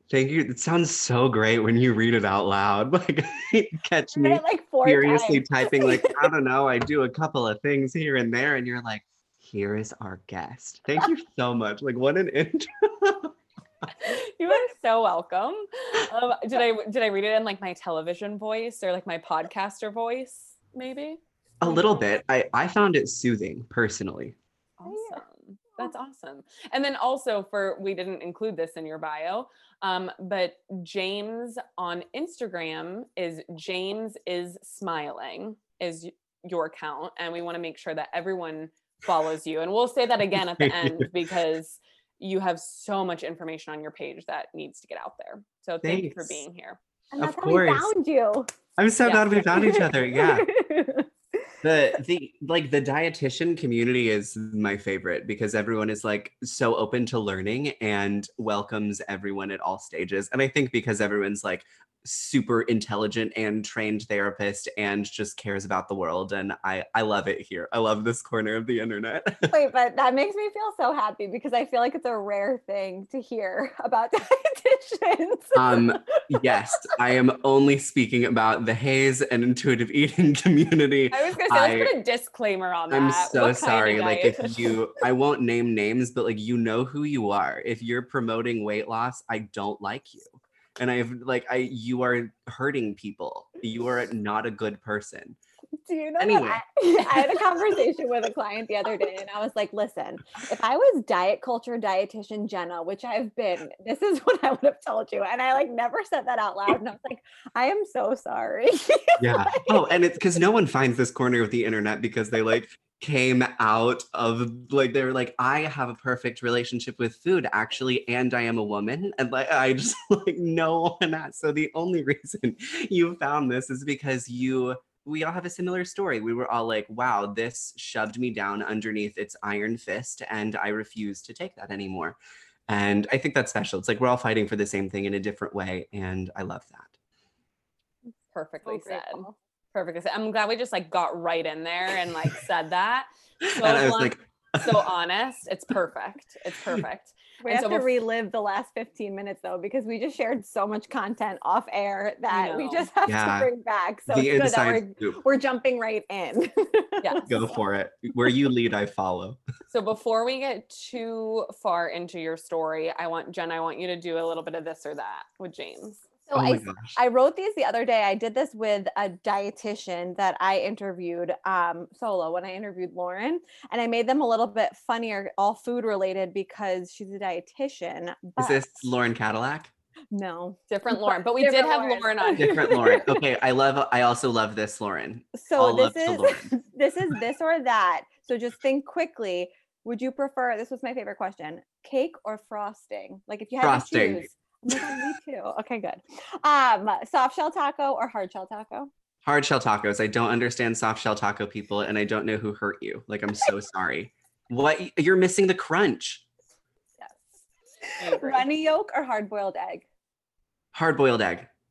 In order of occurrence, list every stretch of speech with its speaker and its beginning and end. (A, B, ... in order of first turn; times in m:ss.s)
0:00.1-0:13.3 A
0:04.1-0:06.3 B
0:14.0-0:22.0 C
0:21.6-0:24.4 A
0:24.8-0:46.8 C
0:24.9-0:25.2 B
0:40.5-0:41.1 A
0:45.8-0:46.4 A
0:47.1-0:48.5 B
0:47.2-0:47.9 A
0:48.8-0:50.5 A
0:49.0-0:49.5 C
0:49.6-0:51.1 B
0:51.6-1:09.5 A
1:09.5-1:16.4 B
1:15.6-1:21.9 A
1:21.1-1:24.8 C
1:22.9-1:35.4 A
1:35.9-1:49.8 B
1:36.2-1:36.6 A
1:49.2-2:12.2 A
2:12.7-2:17.0 A
2:18.3-2:27.9 C
2:18.7-2:19.3 B
2:23.4-2:24.9 A
2:27.4-2:37.6 B
2:32.3-2:32.9 C
2:33.1-2:33.5 A
2:34.1-2:35.2 A
2:37.3-2:39.4 A
2:39.7-2:46.1 C
2:46.3-2:58.8 B
2:46.3-2:47.0 A
2:58.4-2:59.7 A
3:00.1-3:03.1 B
3:00.7-3:03.0 C
3:02.4-3:06.5 A
3:05.4-3:18.9 B
3:13.6-3:15.0 A
3:19.2-3:26.2 A
3:27.9-3:29.8 B
3:28.0-3:28.4 C
3:30.7-3:31.5 A